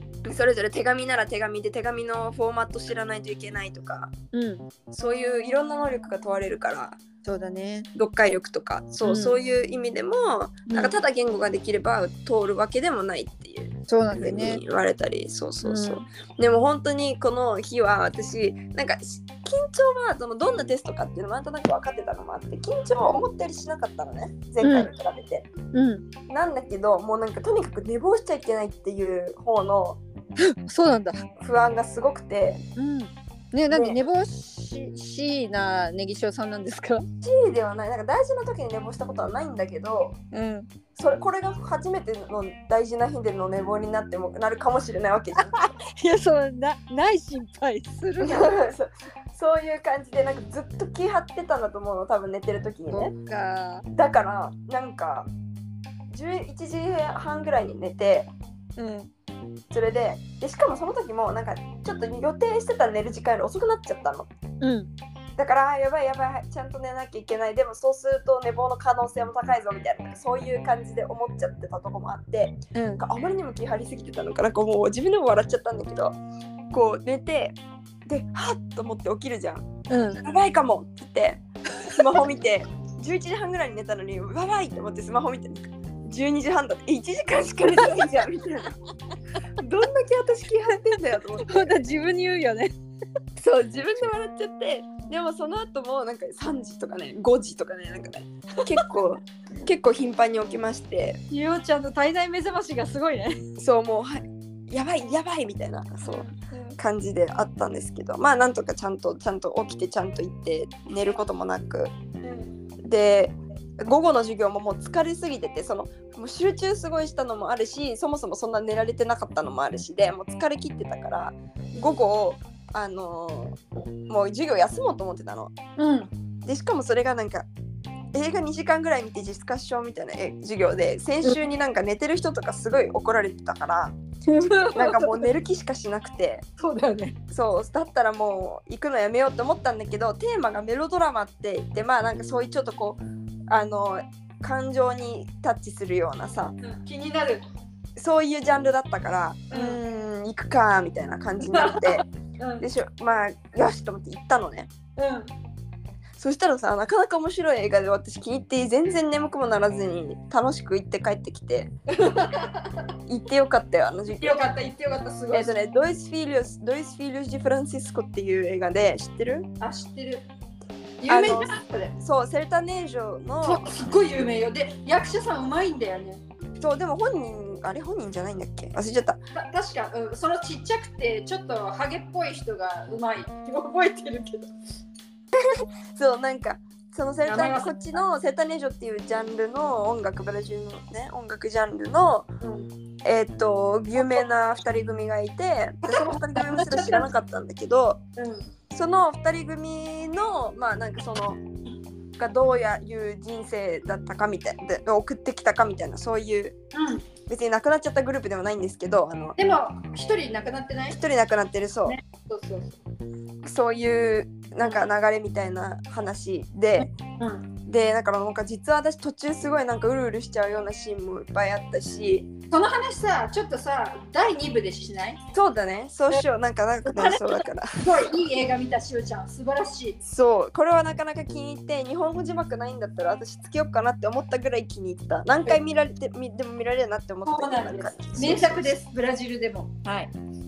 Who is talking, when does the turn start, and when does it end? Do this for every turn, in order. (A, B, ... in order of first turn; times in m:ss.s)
0:00.2-0:04.1 A
0:04.3-0:04.6 B
0:04.9-0:07.0 A
0:07.2-0:07.9 B
0:07.9-0:25.5 A
0:09.0-0:09.4 B
0:10.7-0:11.0 B
0:13.9-0:14.6 B
0:15.6-0:16.0 B
0:24.6-0:24.9 B
0:25.7-0:26.0 B
0:26.3-0:30.0 A
0:30.4-0:31.3 B
0:31.4-0:32.6 A
0:32.8-0:37.0 B
0:33.7-0:34.0 A
0:37.2-0:40.2 A
0:40.3-0:40.7 B
0:40.9-0:45.6 A
0:45.4-0:48.7 B
0:48.2-0:53.1 A
0:52.9-0:53.8 B
0:53.9-0:55.3 A
0:56.1-0:58.3 A
0:58.8-0:59.1 B
0:59.7-1:04.3 A
1:04.6-1:04.9 B
1:05.4-1:16.2 A
1:12.7-1:13.0 B
1:16.7-1:19.6 A
1:19.9-1:20.2 B
1:20.2-1:28.7 A
1:27.7-1:28.1 B
1:29.6-1:31.7 A
1:31.4-1:32.7 B
1:33.4-1:41.2 A
1:38.6-1:38.8 B
1:41.3-1:43.4 B
1:43.6-1:51.9 A
1:46.0-1:46.8 B
1:52.2-1:52.5 B
1:52.8-2:05.5 A
2:05.8-2:06.1 B
2:06.4-2:07.5 A
2:08.1-2:13.9 A
2:14.3-2:15.3 B
2:14.6-2:16.4 A
2:16.6-2:17.2 B
2:17.3-2:26.5 A
2:26.6-2:27.4 B
2:28.0-2:32.0 A
2:29.5-2:29.8 B
2:31.4-2:32.6 B
2:32.6-2:34.7 A
2:35.0-2:35.3 B
2:36.2-2:41.7 A
2:41.9-2:42.8 B
2:43.1-2:44.4 A
2:44.1-2:45.5 B
2:45.3-2:49.5 A
2:49.6-2:50.2 B
2:51.0-2:51.9 B
2:51.1-2:53.6 A
2:53.4-2:56.2 B
2:56.6-2:59.2 A
2:59.3-3:04.5 B
3:05.3-3:12.3 A
3:07.2-3:07.7 B
3:12.4-3:12.7 B
3:13.0-3:18.0 A
3:14.0-3:14.2 B
3:15.8-3:17.1 B
3:18.2-3:18.4 B
3:18.7-3:21.4 A
3:22.2-3:26.6 A
3:26.7-3:27.0 B
3:27.3-3:29.3 A
3:29.4-3:31.0 B
3:30.9-3:32.0 A
3:31.8-3:32.8 B
3:33.4-3:36.9 A
3:36.8-3:37.4 B
3:37.6-3:42.3 A
3:42.5-3:45.2 B
3:45.3-3:48.1 A
3:46.8-3:50.0 B
3:50.0-3:58.7 A
3:57.2-4:00.1 B